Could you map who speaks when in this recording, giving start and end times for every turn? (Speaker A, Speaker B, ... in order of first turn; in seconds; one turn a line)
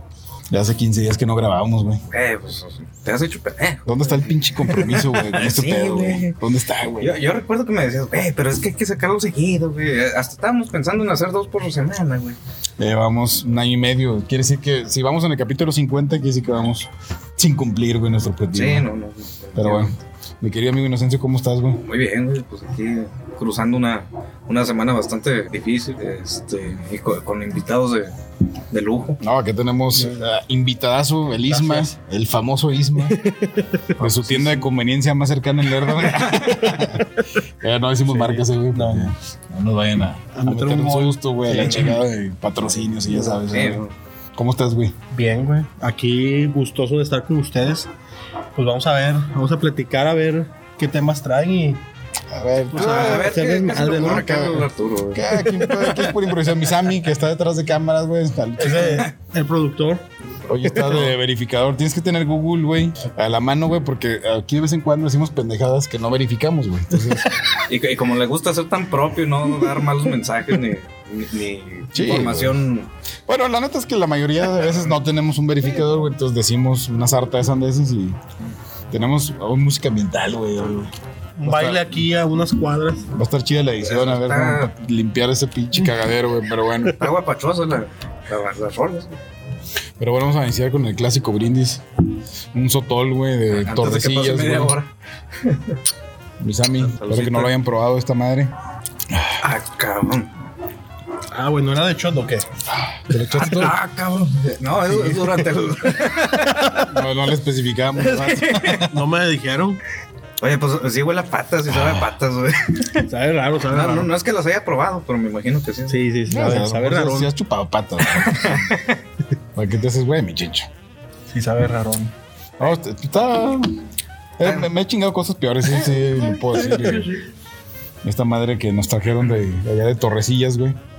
Speaker A: 0.5-2.0
Speaker B: 2.1-6.4
Speaker A: 3.9-7.2
Speaker B: 7.0-12.4
Speaker A: 12.8-18.9
Speaker B: 18.5-20.0
Speaker A: 19.6-21.8
Speaker B: 21.8-28.2
Speaker B: 28.7-29.2
Speaker A: 29.2-33.2
Speaker C: 31.4-31.9
Speaker C: 33.0-34.0
Speaker B: 34.0-34.6
Speaker A: 34.0-37.1
Speaker B: 36.2-36.7
Speaker C: 36.5-37.3
Speaker A: 37.6-43.8
Speaker C: 38.1-39.1
Speaker C: 40.3-42.0
Speaker B: 41.6-42.0
Speaker C: 43.1-43.4
Speaker B: 43.5-43.9
Speaker A: 44.3-45.0
Speaker C: 45.1-47.9
Speaker C: 48.6-51.8
Speaker A: 52.3-53.4
Speaker C: 52.7-54.2
Speaker B: 52.8-55.3
Speaker A: 54.0-59.1
Speaker C: 55.3-56.1
Speaker C: 58.6-60.0
Speaker A: 60.5-67.4
Speaker B: 60.6-61.1
Speaker B: 67.6-72.9
Speaker A: 71.9-72.6
Speaker A: 73.3-78.2
Speaker A: 78.9-80.9
Speaker C: 81.4-83.1
Speaker A: 81.5-82.0
Speaker A: 83.1-87.0
Speaker B: 83.8-84.7
Speaker B: 86.9-89.2
Speaker A: 90.0-91.8
Speaker A: 92.5-94.8
Speaker B: 93.5-95.8
Speaker A: 96.4-98.5
Speaker B: 96.9-97.5
Speaker A: 99.1-99.4
Speaker B: 99.4-100.3
Speaker C: 101.3-102.5
Speaker A: 102.7-103.8
Speaker B: 103.1-106.8
Speaker A: 106.9-108.9
Speaker B: 108.0-108.9
Speaker C: 108.8-109.8
Speaker B: 110.4-113.1
Speaker A: 111.7-112.1
Speaker C: 113.0-114.1
Speaker B: 113.7-116.1
Speaker C: 115.9-117.3
Speaker A: 116.3-118.8
Speaker B: 118.0-119.0
Speaker A: 119.5-120.7
Speaker C: 121.3-122.1
Speaker A: 122.6-123.7
Speaker A: 124.4-127.2
Speaker B: 124.4-124.7
Speaker B: 126.5-127.1
Speaker A: 128.0-130.8